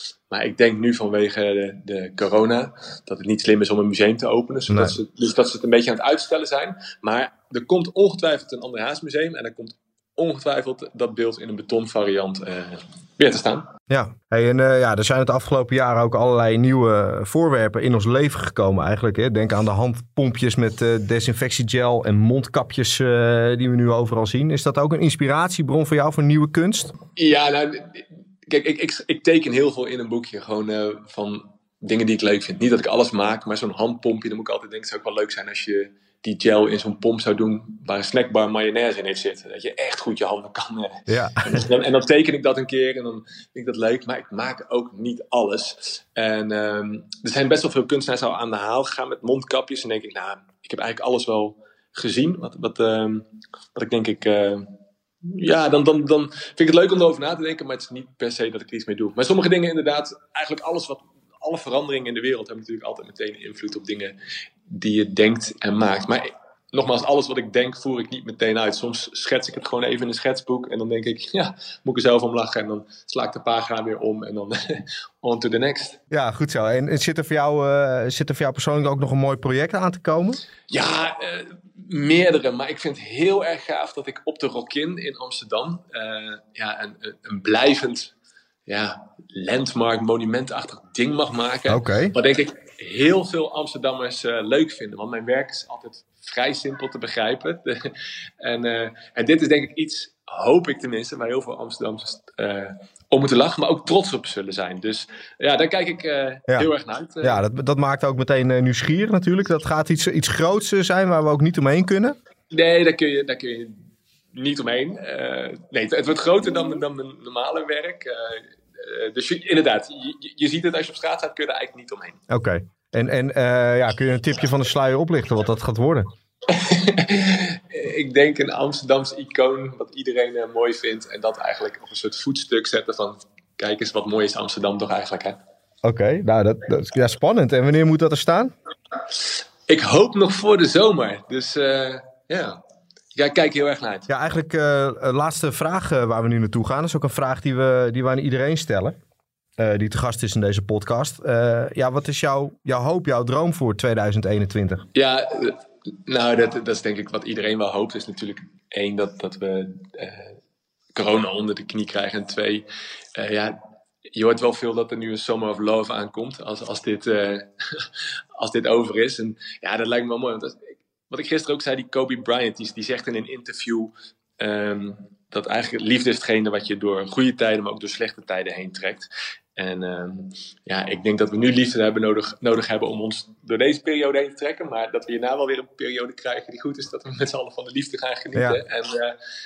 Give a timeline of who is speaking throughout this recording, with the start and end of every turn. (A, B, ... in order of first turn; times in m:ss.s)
0:00.3-0:13.7 A
0:04.7-0:05.0 B
0:13.9-0:26.9 B
0:27.2-0:54.7 A
0:41.1-0:41.7 B
0:55.2-1:04.1 A
1:04.7-1:16.0 A
1:16.1-1:20.4 B
1:20.7-1:28.1 A
1:28.6-1:47.4 A
1:31.7-1:32.1 B
1:47.2-1:52.2 B
1:52.5-2:02.2 A
2:02.3-2:06.1 B
2:06.5-2:15.4 A
2:15.8-2:18.5 B
2:19.7-2:22.6 A
2:23.1-2:24.1 A
2:24.1-2:29.0 B
2:29.6-2:34.8 B
2:34.9-2:40.4 A
2:40.9-2:42.6 A
2:43.2-2:43.6 A
2:44.1-3:09.2 A
3:08.3-3:08.6 B